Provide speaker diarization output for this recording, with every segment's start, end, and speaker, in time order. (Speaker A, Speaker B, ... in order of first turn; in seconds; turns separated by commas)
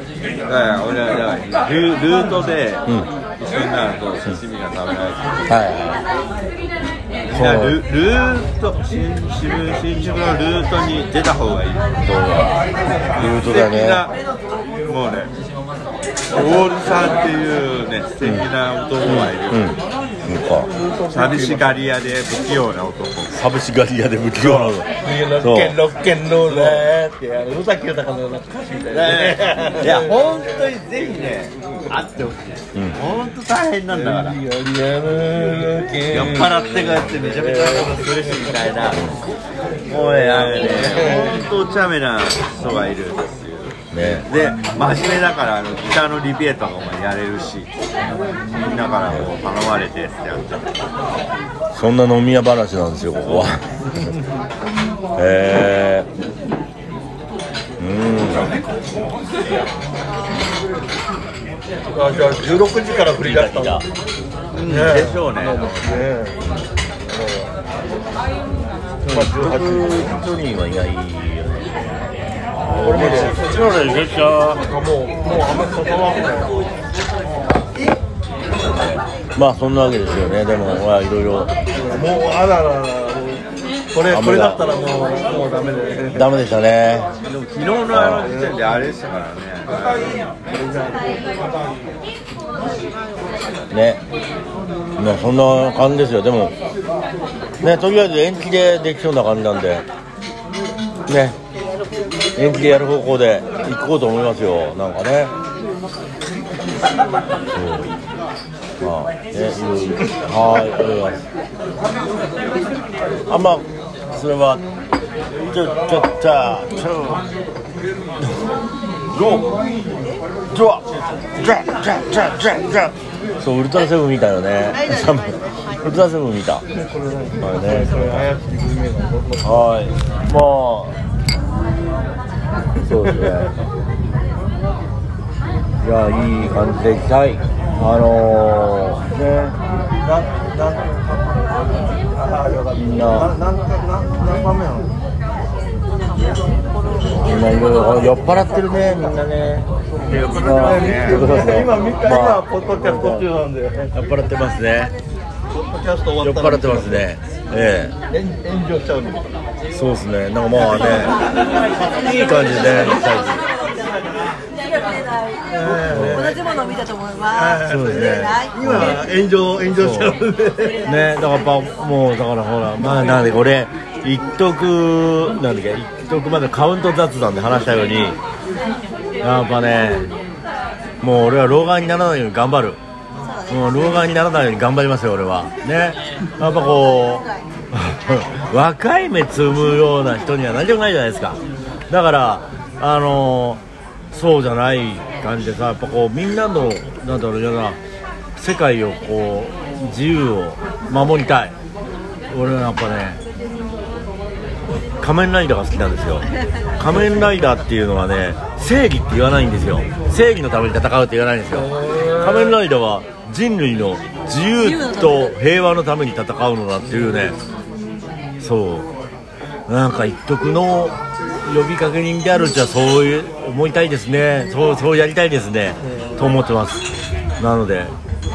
Speaker A: 0.5-5.5, Speaker B: 5.5-6.0, Speaker A: 7.2-11.9, Speaker B: 7.3-7.8, Speaker B: 12.0-12.6, Speaker B: 13.1-14.1, Speaker A: 13.1-14.1, Speaker A: 14.8-15.3, Speaker A: 16.3-19.8, Speaker B: 19.0-20.7, Speaker C: 20.6-21.8, Speaker A: 21.1-23.4, Speaker B: 23.3-25.8, Speaker C: 24.4-30.4, Speaker A: 26.5-26.9, Speaker A: 28.9-34.4, Speaker C: 33.9-38.2, Speaker A: 36.1-39.0, Speaker B: 38.9-39.2, Speaker A: 39.9-47.7, Speaker C: 40.0-41.3, Speaker B: 43.9-44.3, Speaker A: 48.5-50.7, Speaker B: 51.7-54.1, Speaker B: 55.2-56.1, Speaker B: 57.8-58.6, Speaker C: 61.9-63.8, Speaker B: 63.2-63.8, Speaker A: 64.5-66.0, Speaker C: 64.7-66.4, Speaker B: 66.4-66.7, Speaker C: 67.1-67.5, Speaker B: 68.5-74.6, Speaker C: 69.0-70.2, Speaker C: 72.7-73.4, Speaker C: 74.6-76.6, Speaker B: 78.5-81.5, Speaker C: 81.7-86.3, Speaker B: 84.0-84.6, Speaker B: 86.1-87.1, Speaker A: 87.2-90.4, Speaker B: 87.9-88.3, Speaker C: 88.3-88.6, Speaker C: 90.5-91.3, Speaker B: 93.7-94.0, Speaker B: 95.0-96.5, Speaker B: 97.6-99.8, Speaker B: 101.1-101.4, Speaker B: 102.3-105.3, Speaker B: 107.5-107.9, Speaker B: 108.8-111.2, Speaker B: 113.3-114.6, Speaker B: 115.5-117.2, Speaker B: 119.1-119.5, Speaker B: 120.5-120.8, Speaker B: 121.4-126.6, Speaker D: 124.8-125.8, Speaker C: 126.8-129.7, Speaker B: 127.4-128.3, Speaker B: 129.4-130.9, Speaker B: 132.8-133.6, Speaker C: 133.1-133.4, Speaker B: 135.8-139.6, Speaker C: 140.0-144.9, Speaker B: 142.7-143.3, Speaker D: 145.8-148.9, Speaker B: 147.2-149.7, Speaker A: 150.0-151.4, Speaker C: 150.1-153.9, Speaker B: 150.3-153.3, Speaker B: 153.9-154.9, Speaker D: 154.4-154.9, Speaker C: 155.5-157.1, Speaker B: 156.2-158.0, Speaker C: 158.1-159.3, Speaker B: 159.7-161.2, Speaker C: 160.7-161.1, Speaker D: 160.8-168.8, Speaker B: 161.8-163.5, Speaker C: 165.5-166.4, Speaker B: 165.8-166.3, Speaker C: 167.3-170.9, Speaker B: 167.6-169.0, Speaker B: 169.7-170.2, Speaker B: 170.8-178.2, Speaker B: 179.2-180.1, Speaker B: 181.0-182.8, Speaker D: 183.2-184.0, Speaker B: 183.5-193.6, Speaker D: 187.0-187.4, Speaker B: 194.1-197.8, Speaker B: 198.3-201.5, Speaker B: 202.3-203.2, Speaker B: 205.0-206.2, Speaker B: 206.8-217.4, Speaker C: 211.5-212.6, Speaker D: 214.6-215.4, Speaker B: 218.4-218.9, Speaker B: 219.7-227.9